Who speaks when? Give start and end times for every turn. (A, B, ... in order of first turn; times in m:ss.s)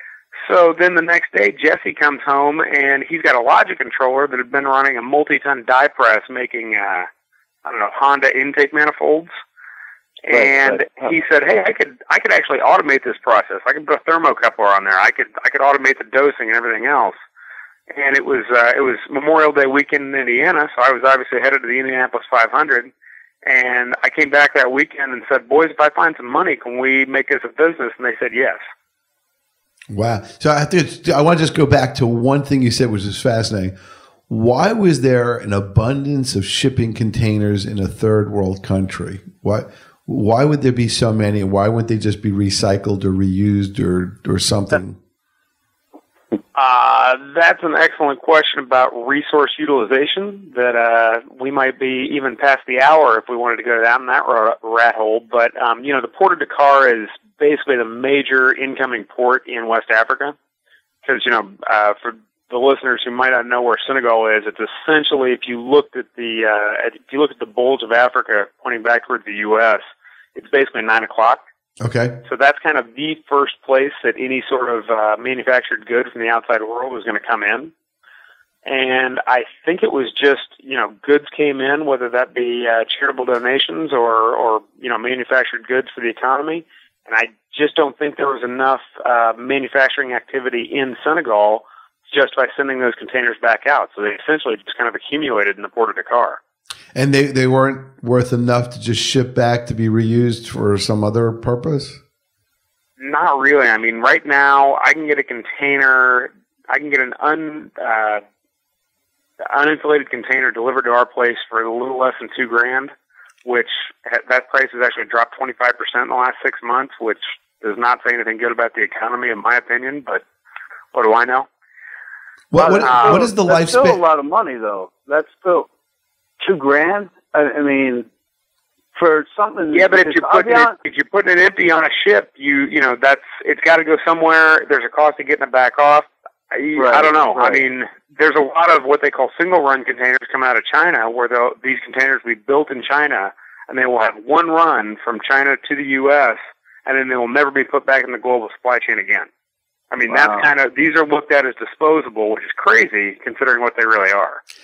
0:00.4-0:07.1 A
0:07.6-0:09.3 A
0:10.2-0:17.2 A
0:10.3-0:10.8 B
0:17.9-0:22.9 A
0:23.4-0:28.6 A
0:29.9-0:33.7 C
0:34.3-0:45.0 C
0:46.6-1:00.4 A
1:01.0-1:09.8 A
1:10.4-1:11.4 A
1:11.8-1:12.2 C
1:12.2-1:17.7 A
1:18.7-1:36.4 A
1:37.0-1:42.0 C
1:43.0-1:48.2 A
1:49.5-1:52.9 A
1:53.4-2:00.2 A
2:00.9-2:01.5 A
2:02.5-2:04.0 C
2:02.6-2:05.7 B
2:02.8-2:03.2 A
2:06.4-2:08.1 B
2:09.0-2:10.7 B
2:09.7-2:29.3 A
2:16.8-2:17.6 B
2:29.9-2:34.4 A
2:30.1-2:30.5 B